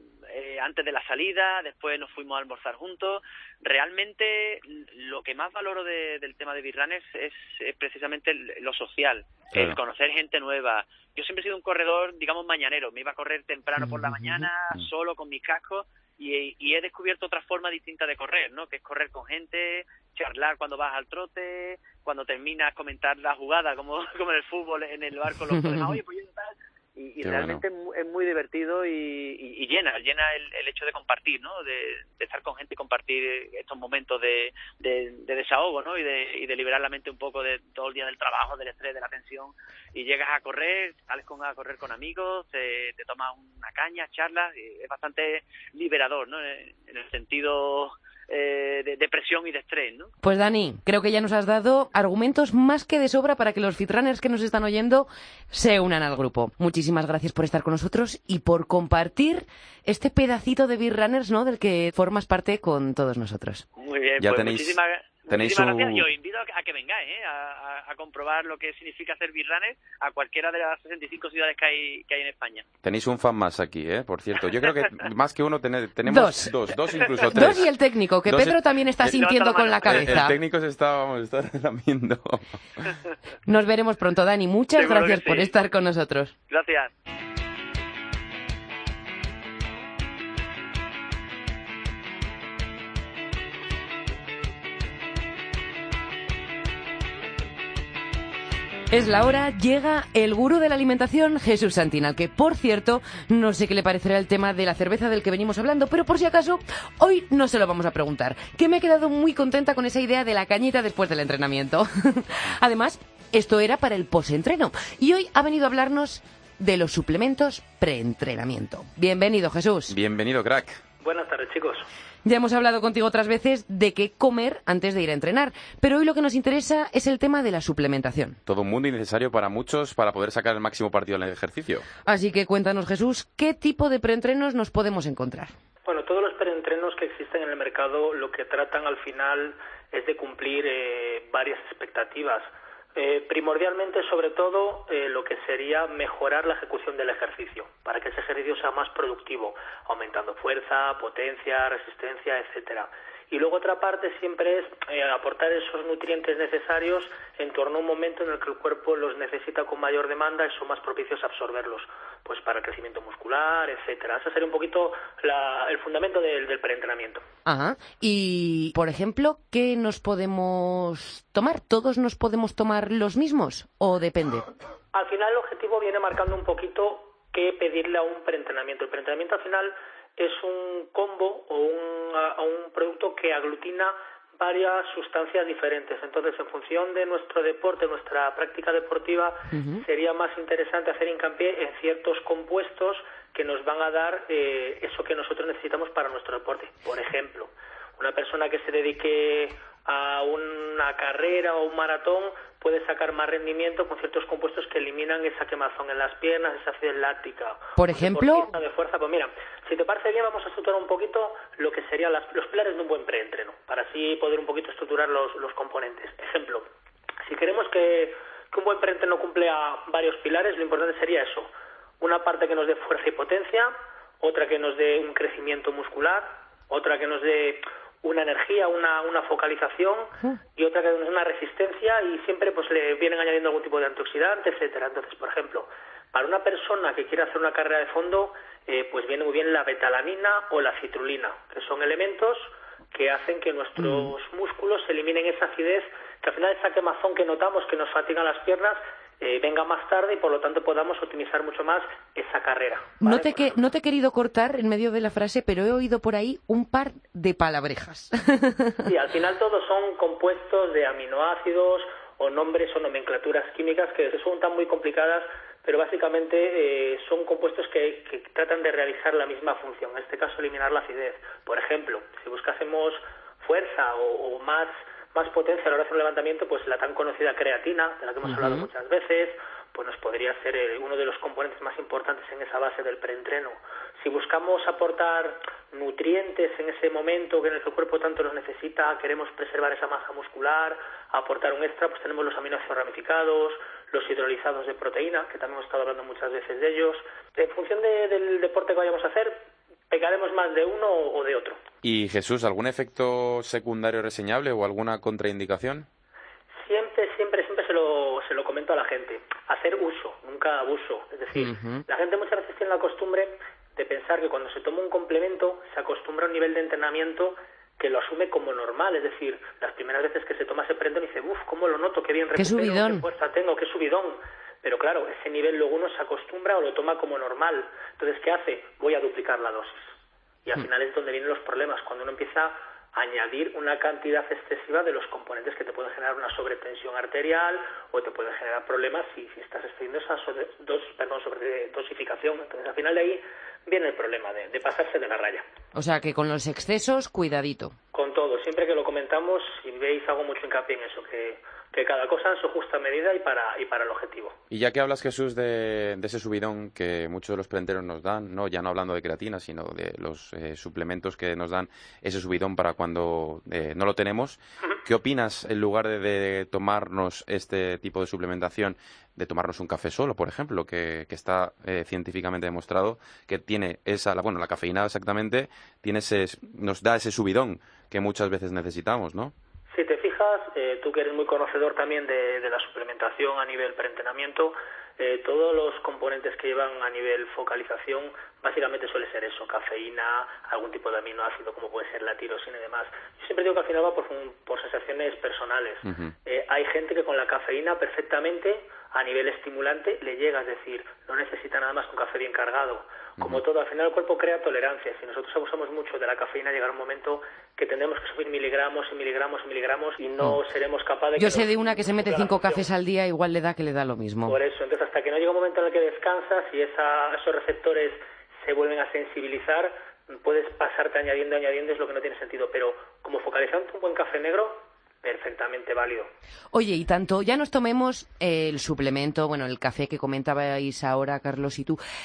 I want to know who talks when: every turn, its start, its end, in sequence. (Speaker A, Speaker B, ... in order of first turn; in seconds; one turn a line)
Speaker A: 0.3-50.1
Speaker B: 25.5-25.9
Speaker C: 27.2-27.6
Speaker B: 50.2-63.6
Speaker A: 63.8-72.7
Speaker C: 64.2-64.8
Speaker C: 65.3-66.1
Speaker C: 72.8-77.7
Speaker B: 76.0-76.6
Speaker A: 77.0-77.5
Speaker B: 77.3-80.4
Speaker C: 78.2-78.6
Speaker A: 79.0-80.2
Speaker C: 79.9-82.4
Speaker B: 83.5-86.3
Speaker A: 84.8-85.5
Speaker A: 86.5-86.9
Speaker B: 98.9-120.0
Speaker C: 119.9-120.8
Speaker D: 121.0-121.9
Speaker B: 122.2-128.4
Speaker C: 128.5-131.9
Speaker B: 132.1-135.5
Speaker D: 135.8-167.2
Speaker B: 167.4-174.5
Speaker D: 174.9-216.7
Speaker B: 189.5-189.8
Speaker B: 207.8-208.5
Speaker D: 217.3-253.7
Speaker B: 243.8-244.1
Speaker B: 253.0-258.9
Speaker D: 258.9-301.6
Speaker B: 278.2-278.7
Speaker C: 301.8-305.9
Speaker D: 306.6-329.9
Speaker B: 311.3-311.8
Speaker B: 322.4-323.1
Speaker D: 330.4-345.4
Speaker B: 345.8-347.8
Speaker D: 347.9-354.4
Speaker C: 354.5-379.3
Speaker D: 379.7-412.7
Speaker C: 395.9-396.1
Speaker B: 411.2-414.4
Speaker D: 414.3-426.1
Speaker B: 426.5-431.8